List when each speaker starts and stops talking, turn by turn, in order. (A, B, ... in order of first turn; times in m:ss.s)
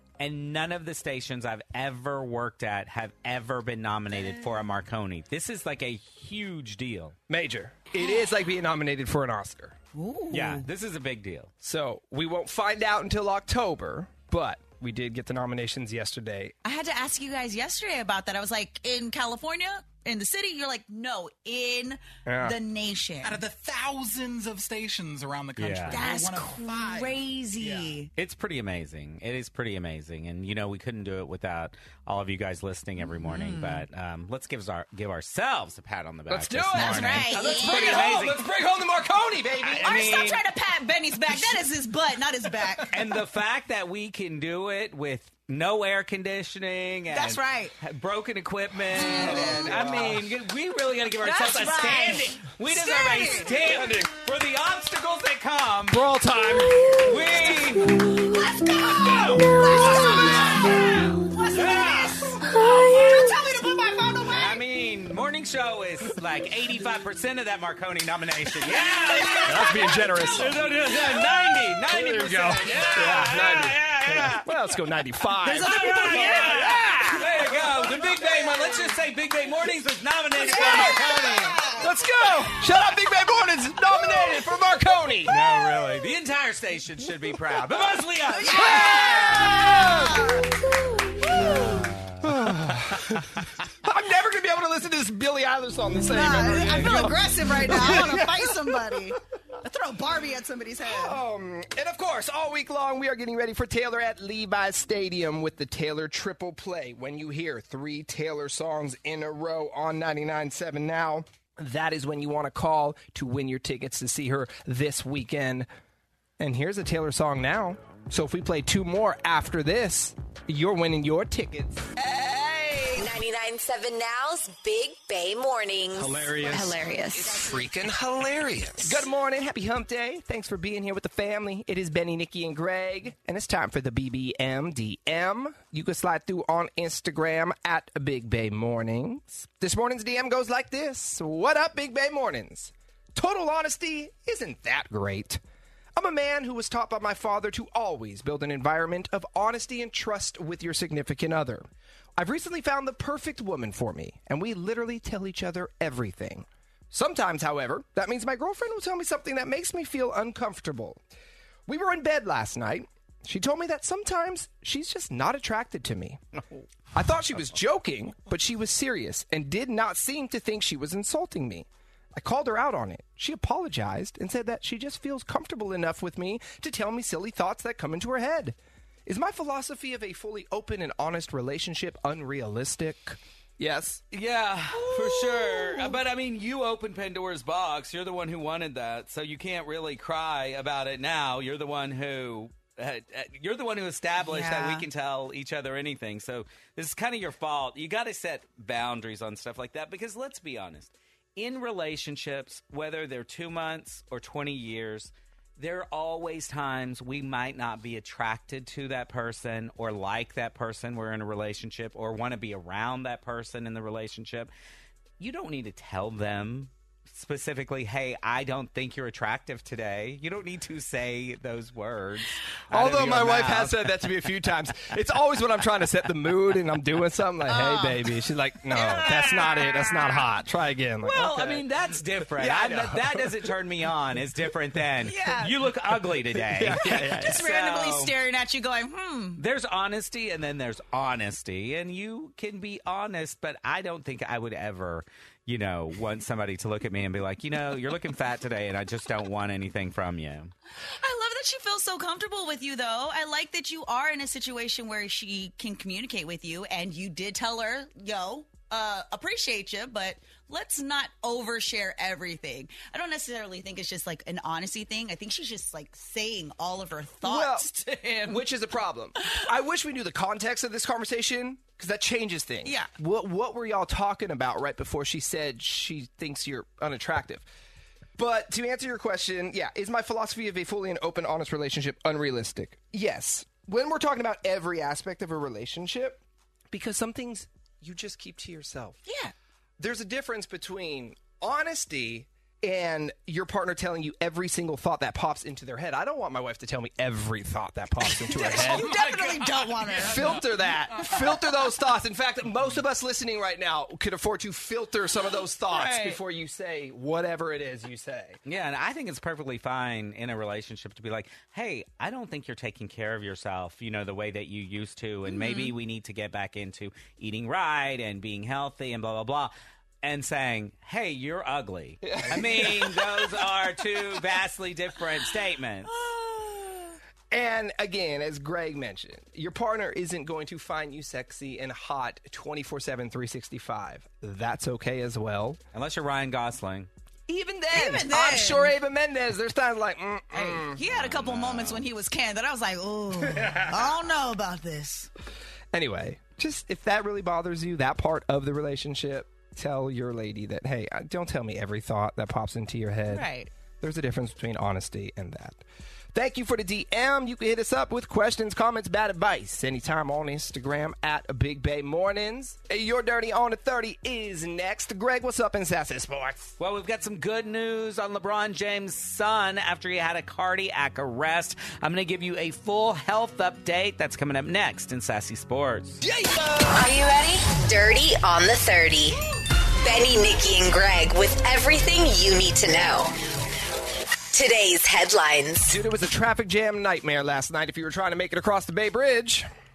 0:00.2-0:07.1 A
0:07.3-0:09.8 B
0:09.9-0:10.6 C
0:10.3-0:11.5 A
0:11.6-0:16.5 B
0:16.6-0:23.4 C
0:22.2-0:22.6 B
0:23.2-0:27.9 D
0:25.6-0:26.0 A
0:25.9-0:28.1 C
0:28.2-0:38.4 A
0:33.1-0:33.8 C
0:36.3-0:40.0 B
0:36.7-0:38.2 C
0:39.6-0:42.9 C
0:39.8-0:40.4 A
0:42.9-0:56.1 A
0:47.1-0:47.7 C
0:48.9-0:49.7 C
0:49.1-0:50.2 B
0:51.2-0:53.6 C
0:55.9-0:57.2 B
0:56.9-0:58.0 A
0:58.2-1:02.0 C
0:58.9-1:00.7 A
0:59.6-1:00.6 B
1:01.4-1:02.4 A
1:02.5-1:04.4 C
1:04.2-1:14.5 A
1:09.0-1:10.3 C
1:09.4-1:10.6 B
1:11.9-1:17.5 B
1:15.4-1:17.2 C
1:15.5-1:21.7 A
1:18.0-1:18.7 C
1:20.4-1:21.9 C
1:20.5-1:25.4 B
1:25.2-1:29.6 A
1:28.3-1:31.8 C
1:28.5-1:30.4 B
1:31.2-1:39.0 B
1:31.4-1:33.0 A
1:36.1-1:41.2 C
1:40.8-1:55.7 B
1:56.4-2:01.9 B
2:02.0-2:03.0 C
2:02.9-2:06.8 E
2:06.0-2:25.4 B
2:26.0-2:31.6 B
2:32.2-2:41.0 B
2:41.7-2:46.2 B
2:46.9-3:04.0 B
3:04.1-3:34.5 A
3:04.8-3:05.9 C
3:14.2-3:14.8 C
3:35.2-3:44.3 A
3:42.7-3:51.6 B
3:47.5-3:48.0 C
3:48.7-3:49.9 C
3:48.9-3:49.7 A
3:51.0-3:58.1 A
3:52.2-3:53.4 B
3:55.1-3:55.5 C
3:56.4-3:57.4 B
3:56.8-3:59.4 C
3:59.4-4:10.5 A
4:11.0-4:27.8 C
4:27.2-4:37.4 B
4:32.6-4:32.9 C
4:38.2-4:49.0 B
4:49.0-4:49.3 C
4:49.8-4:59.0 B
4:58.0-5:00.4 C
4:58.4-5:01.4 D
4:59.9-5:08.4 B
5:05.7-5:06.2 C
5:08.4-5:25.9 A
5:15.3-5:15.7 C
5:22.0-5:23.3 B
5:27.3-5:35.6 B
5:35.7-5:36.9 A
5:37.3-5:40.8 B
5:37.7-5:38.7 C
5:40.3-5:45.1 C
5:40.9-5:41.8 A
5:45.7-5:53.3 B
5:53.1-5:53.5 C
5:53.8-5:55.6 B
5:56.1-6:06.5 B
6:06.6-6:16.0 A
6:16.0-6:16.8 B
6:16.6-6:19.2 E
6:19.8-6:23.1 E
6:24.3-6:25.8 E
6:25.6-6:29.5 B